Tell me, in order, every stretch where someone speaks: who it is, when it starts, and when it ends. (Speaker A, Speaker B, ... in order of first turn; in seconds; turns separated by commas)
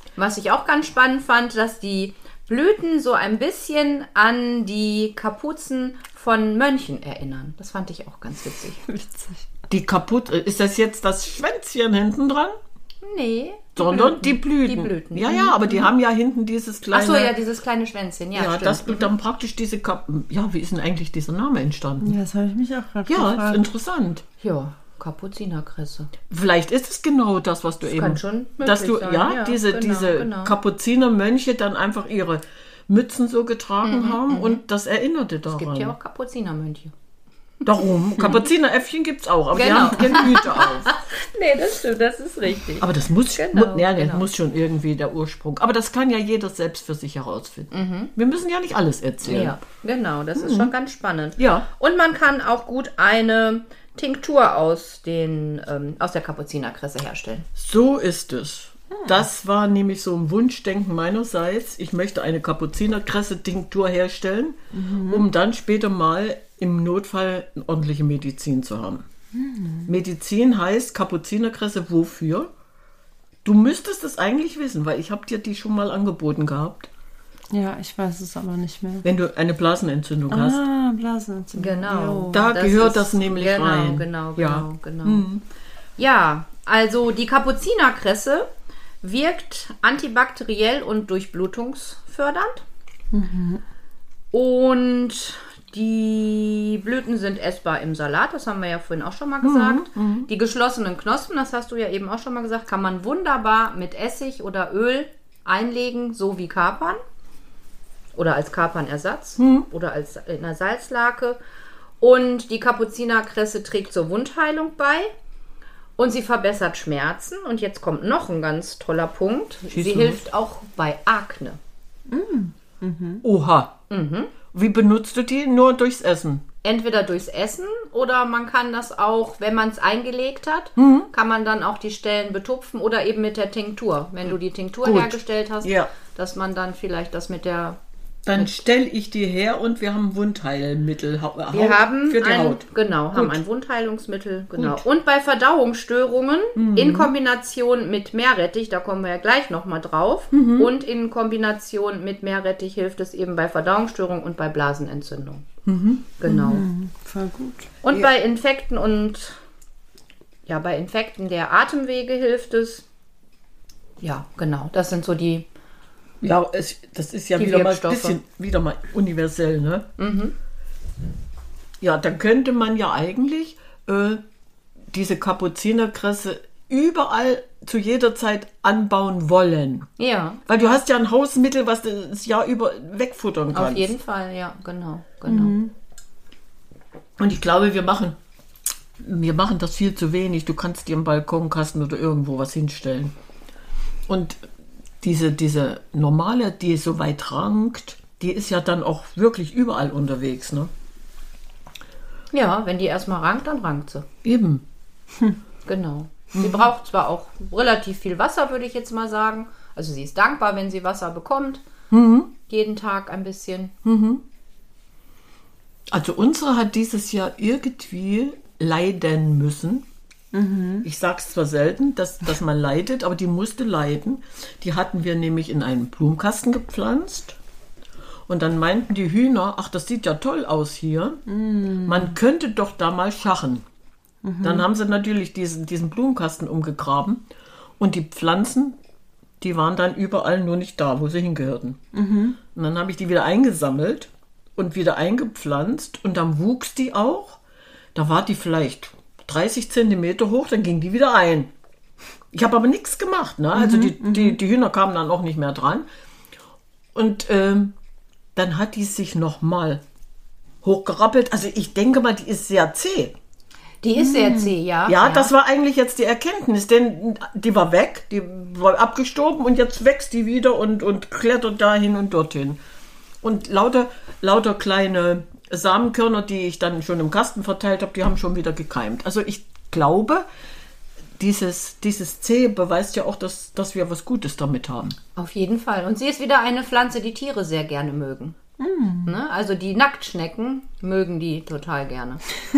Speaker A: 0.1-8.9, Speaker B: 8.9-9.4, Speaker C: 9.7-12.6, Speaker A: 13.0-15.9, Speaker C: 13.8-17.3, Speaker A: 16.9-19.1, Speaker C: 18.3-22.1, Speaker B: 22.0-23.6, Speaker C: 23.1-24.2, Speaker A: 24.4-26.1, Speaker C: 26.3-35.9, Speaker A: 27.8-30.5, Speaker A: 33.8-34.6, Speaker A: 35.5-36.9, Speaker C: 37.6-40.9, Speaker A: 39.5-44.2, Speaker C: 42.8-49.6, Speaker A: 47.7-48.1, Speaker A: 49.2-57.5, Speaker C: 50.4-50.7, Speaker C: 51.4-51.7, Speaker C: 57.5-69.0, Speaker B: 64.7-65.2, Speaker B: 69.3-69.9, Speaker C: 69.9-72.5, Speaker C: 73.4-76.9, Speaker B: 77.5-79.0, Speaker C: 79.0-80.6, Speaker B: 80.3-82.4, Speaker A: 81.5-85.2, Speaker C: 82.3-85.4, Speaker A: 86.0-88.5, Speaker A: 89.0-92.6, Speaker B: 93.1-93.6, Speaker A: 94.3-107.0, Speaker C: 99.4-100.3, Speaker A: 108.1-111.4, Speaker C: 109.4-109.7, Speaker A: 112.0-115.1, Speaker A: 116.0-121.6, Speaker C: 119.7-120.2, Speaker B: 122.1-123.2, Speaker C: 123.2-123.8, Speaker A: 123.9-124.3, Speaker C: 124.5-126.5, Speaker A: 126.6-137.8, Speaker C: 130.8-131.1, Speaker C: 134.8-135.9, Speaker C: 138.2-143.4, Speaker A: 141.5-155.4, Speaker C: 144.6-144.8, Speaker C: 146.6-147.1, Speaker C: 150.3-150.7, Speaker C: 155.7-156.2, Speaker A: 156.2-156.6, Speaker B: 156.3-157.7, Speaker A: 157.8-159.4, Speaker A: 160.5-162.8, Speaker A: 164.0-165.5, Speaker C: 166.2-169.9, Speaker A: 167.4-168.2, Speaker A: 170.0-170.3, Speaker C: 171.8-174.2, Speaker C: 174.9-179.9, Speaker A: 180.0-180.5, Speaker C: 180.5-183.9, Speaker A: 183.5-185.6, Speaker B: 185.3-185.7, Speaker C: 187.2-188.2, Speaker C: 189.0-193.1, Speaker C: 194.1-194.4, Speaker C: 195.0-200.7, Speaker A: 202.3-204.1, Speaker C: 204.2-204.6, Speaker A: 205.7-211.6, Speaker C: 206.3-206.7, Speaker C: 211.9-212.3, Speaker A: 212.5-213.7, Speaker C: 213.8-214.2, Speaker C: 215.9-219.8, Speaker B: 220.3-220.8, Speaker C: 220.8-227.4, Speaker C: 228.3-231.2, Speaker B: 231.3-232.1, Speaker C: 231.8-233.6, Speaker B: 234.2-234.6, Speaker C: 234.4-237.3, Speaker C: 237.8-238.8, Speaker C: 239.4-241.8, Speaker B: 241.9-242.4, Speaker C: 242.5-247.4, Speaker C: 247.9-251.5, Speaker C: 252.3-255.8, Speaker B: 253.6-254.3, Speaker C: 256.9-257.7, Speaker C: 258.3-259.8, Speaker C: 260.6-263.1, Speaker A: 263.8-265.3, Speaker B: 264.1-264.5, Speaker C: 264.9-272.6, Speaker C: 273.2-280.2, Speaker C: 281.2-285.0, Speaker A: 285.1-288.4, Speaker B: 288.6-289.1, Speaker A: 289.0-292.2